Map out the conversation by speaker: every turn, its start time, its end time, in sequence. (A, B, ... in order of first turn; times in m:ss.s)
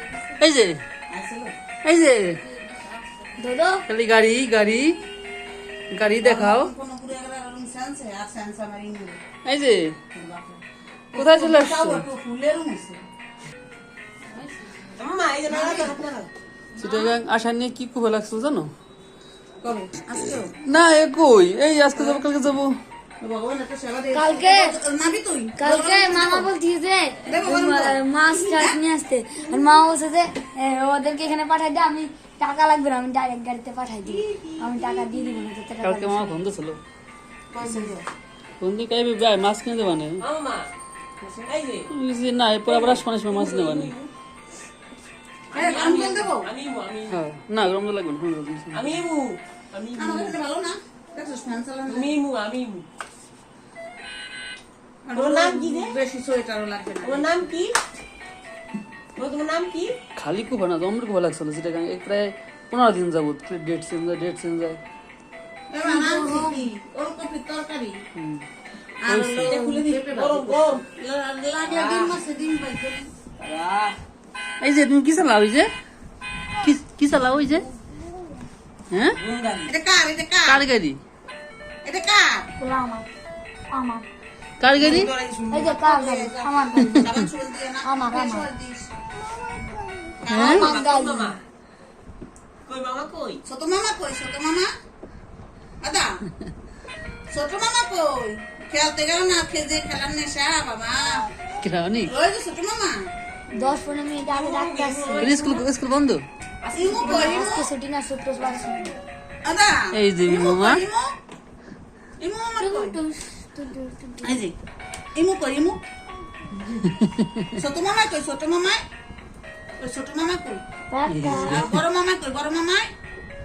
0:00.4-0:00.8 A
0:01.1-0:01.5 B
0:01.8-0:02.4 A
0:03.4-0:03.8 C
0:03.9-0:05.0 A
0:05.9-0:06.7 A
0:06.2-0:09.2 B
0:09.4-0:10.0 A
0:10.1-0:13.0 B
0:11.1-0:12.1 A
0:14.9-0:16.0 B
0:14.9-0:16.3 D
0:16.8-0:17.1 B
0:16.8-0:18.7 A
0:19.6-0:20.5 B
0:20.2-0:22.8 A
0:22.0-0:22.2 B
0:23.2-0:26.5 B
0:24.1-0:24.8 C
0:25.6-0:36.4 C
0:27.3-0:28.8 B
0:34.1-0:35.2 D
0:35.8-0:36.8 A
0:37.5-0:38.1 B
0:38.6-0:40.2 A
0:40.2-0:40.7 D
0:41.2-0:41.5 B
0:41.5-0:41.9 D
0:41.9-0:43.9 A
0:42.6-0:44.1 D
0:45.5-0:47.2 D
0:45.5-0:46.5 B
0:47.1-0:48.9 A
0:48.7-0:50.4 D
0:50.0-0:52.2 B
0:51.9-0:52.9 D
0:55.0-0:57.4 B
0:55.1-0:55.9 D
0:57.0-0:57.8 D
0:59.2-1:00.0 D
1:00.2-1:04.8 A
1:05.7-1:08.0 B
1:05.8-1:06.6 C
1:08.2-1:08.4 A
1:09.0-1:13.1 B
1:09.1-1:09.6 A
1:09.5-1:10.8 D
1:11.7-1:12.2 D
1:13.4-1:14.0 D
1:14.6-1:15.7 A
1:16.6-1:17.7 A
1:18.9-1:19.2 A
1:19.2-1:19.7 D
1:19.7-1:20.7 B
1:20.5-1:21.0 A
1:21.8-1:22.5 B
1:22.6-1:23.1 C
1:23.7-1:24.0 C
1:24.6-1:25.1 A
1:24.8-1:28.9 B
1:25.5-1:27.1 C
1:27.8-1:28.5 C
1:30.2-1:30.9 B
1:30.3-1:30.6 A
1:30.3-1:31.4 C
1:30.4-1:31.4 D
1:32.7-1:33.4 D
1:33.4-1:34.7 B
1:35.8-1:36.2 B
1:37.3-1:41.3 B
1:41.6-1:42.1 A
1:42.0-1:43.1 B
1:43.5-1:45.3 C
1:44.3-1:45.7 D
1:45.2-1:46.2 A
1:46.6-1:47.4 D
1:46.7-1:47.7 B
1:47.0-1:49.0 C
1:49.4-1:51.1 B
1:49.9-1:50.8 A
1:52.2-1:53.0 B
1:52.6-1:54.4 C
1:54.2-1:54.6 B
1:55.1-1:55.8 B
1:56.9-1:57.5 A
1:57.6-1:58.8 B
1:59.8-2:00.6 B
2:00.9-2:01.6 C
2:01.1-2:01.8 A
2:01.3-2:02.9 B